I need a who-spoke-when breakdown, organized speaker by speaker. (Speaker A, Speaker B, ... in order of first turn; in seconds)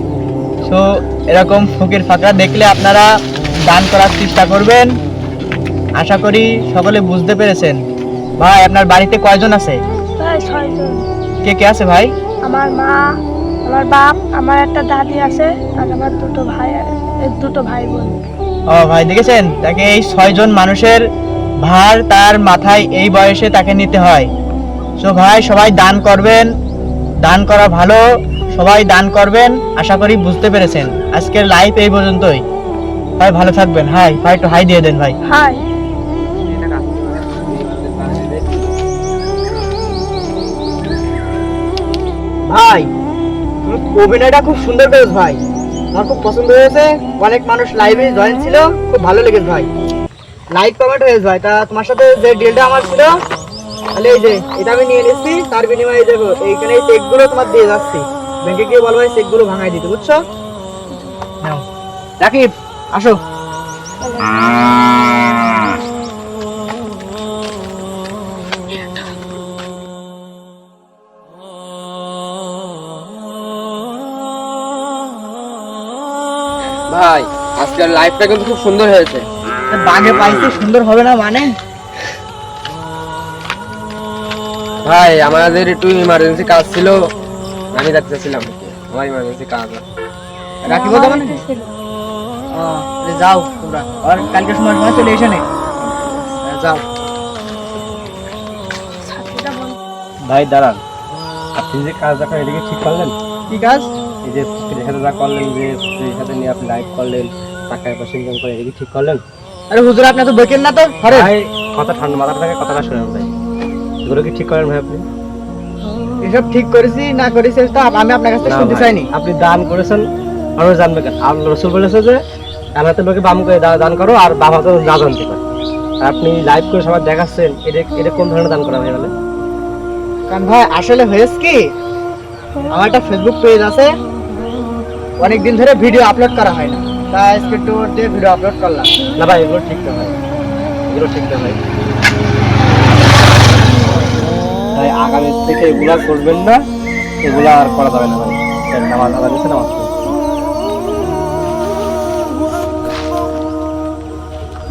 Speaker A: 0.7-3.1, 3.7-4.9, 6.0-7.8, 8.4-9.8, 11.4-12.1, 18.7-21.0, 21.6-24.3, 25.0-26.5, 27.2-28.0, 28.5-32.4, 33.2-35.1, 42.5-42.9, 43.6-45.4, 45.9-49.7, 50.5-53.1, 54.0-60.2, 62.2-63.2, 79.7-81.5, 90.7-91.3, 92.5-95.4, 96.4-96.8, 103.5-103.9, 109.7-111.3, 116.2-119.1, 130.3-131.7, 132.7-133.9, 135.2-138.9
Speaker B: 10.2-11.1, 12.4-13.0, 13.7-18.2, 35.2-35.6, 60.9-61.1, 64.0-64.3, 90.7-91.7, 99.0-99.8
Speaker C: 36.5-38.7, 76.9-79.3, 84.8-87.0, 87.7-89.8
Speaker D: 100.2-100.8, 101.6-103.2, 104.2-109.2, 111.1-113.3, 114.0-115.0, 118.5-120.0, 120.6-122.2, 122.8-125.4, 126.0-129.1, 139.2-140.1, 140.9-141.6, 144.8-146.6, 147.2-149.9